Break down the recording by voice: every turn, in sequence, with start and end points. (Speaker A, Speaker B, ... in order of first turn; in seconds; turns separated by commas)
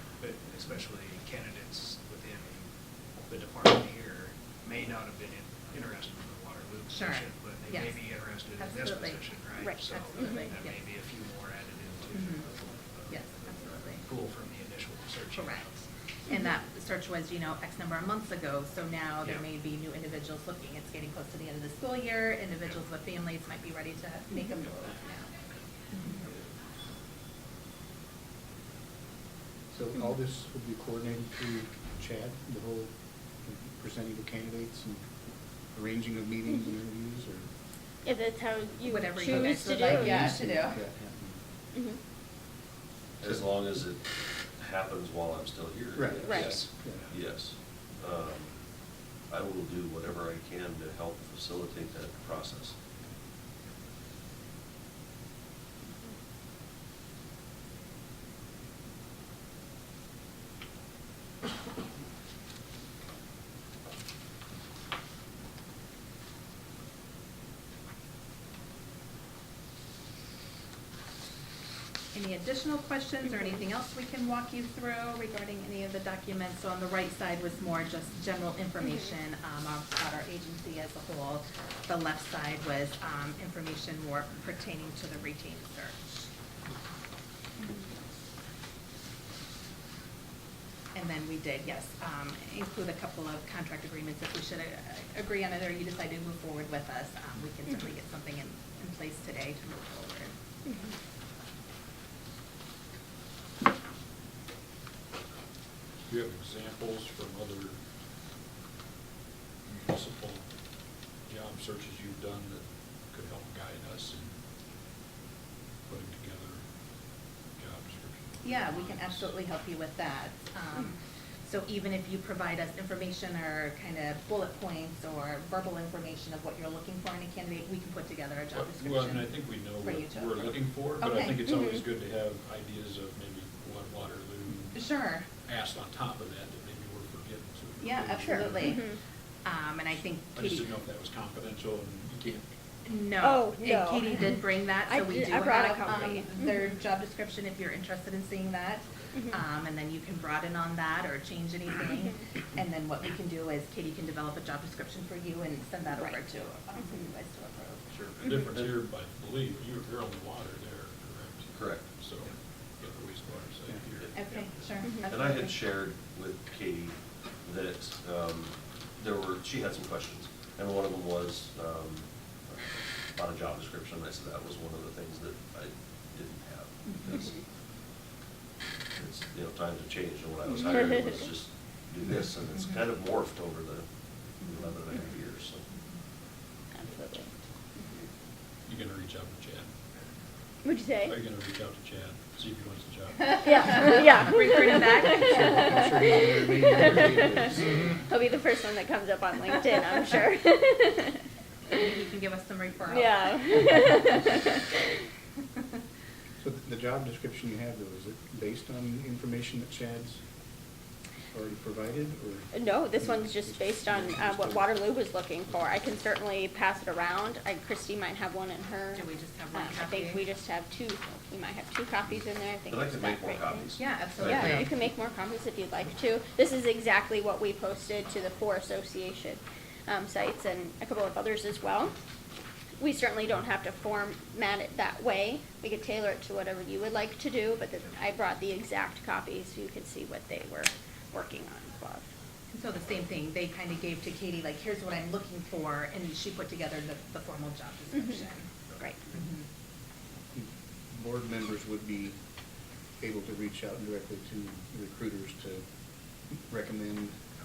Speaker A: 0.2-2.7, Speaker A: 3.3-15.8, Speaker B: 6.9-8.0, Speaker B: 8.6-9.2, Speaker C: 9.6-10.4, Speaker B: 9.9-10.8, Speaker B: 12.1-12.5, Speaker B: 13.1-14.0, Speaker B: 15.3-15.7, Speaker B: 16.3-25.3, Speaker B: 25.9-26.2, Speaker D: 29.7-32.9, Speaker D: 33.4-35.0, Speaker D: 35.7-37.5, Speaker C: 38.0-40.4, Speaker B: 38.8-40.8, Speaker D: 39.3-41.4, Speaker E: 43.2-44.0, Speaker E: 44.6-48.5, Speaker D: 45.9-47.1, Speaker C: 46.2-46.6, Speaker A: 46.4-46.7, Speaker E: 49.3-52.7, Speaker B: 72.1-86.3, Speaker B: 90.9-100.3, Speaker F: 106.1-107.8, Speaker F: 109.7-110.4, Speaker F: 111.2-114.3, Speaker F: 115.9-116.6, Speaker F: 117.6-119.3, Speaker B: 118.4-131.4, Speaker F: 128.5-134.8, Speaker C: 131.4-131.8, Speaker B: 134.7-135.3, Speaker F: 135.4-138.8, Speaker B: 137.8-138.8, Speaker C: 138.2-139.0, Speaker B: 139.4-140.7, Speaker F: 140.3-142.4, Speaker B: 142.8-157.8, Speaker C: 143.2-146.7, Speaker C: 149.2-149.4, Speaker C: 156.8-157.1, Speaker F: 157.9-164.3, Speaker E: 161.5-161.9, Speaker B: 164.1-165.5, Speaker C: 164.8-165.1, Speaker E: 165.0-177.3, Speaker E: 179.0-183.8, Speaker C: 180.5-180.9, Speaker E: 184.4-185.6, Speaker C: 186.7-188.1, Speaker F: 188.7-189.7, Speaker C: 190.6-191.2, Speaker F: 191.1-194.3, Speaker C: 193.3-197.5, Speaker B: 193.4-195.6, Speaker D: 195.0-197.8, Speaker C: 198.1-201.2, Speaker B: 201.7-204.2, Speaker C: 202.9-204.6, Speaker D: 206.4-210.2, Speaker D: 211.3-214.8, Speaker C: 212.5-231.9, Speaker B: 218.9-220.3, Speaker E: 222.7-224.7, Speaker B: 223.8-224.7, Speaker C: 232.8-242.1, Speaker B: 242.5-248.5, Speaker B: 249.1-249.4, Speaker D: 250.3-252.1, Speaker D: 253.0-255.6, Speaker D: 256.5-257.2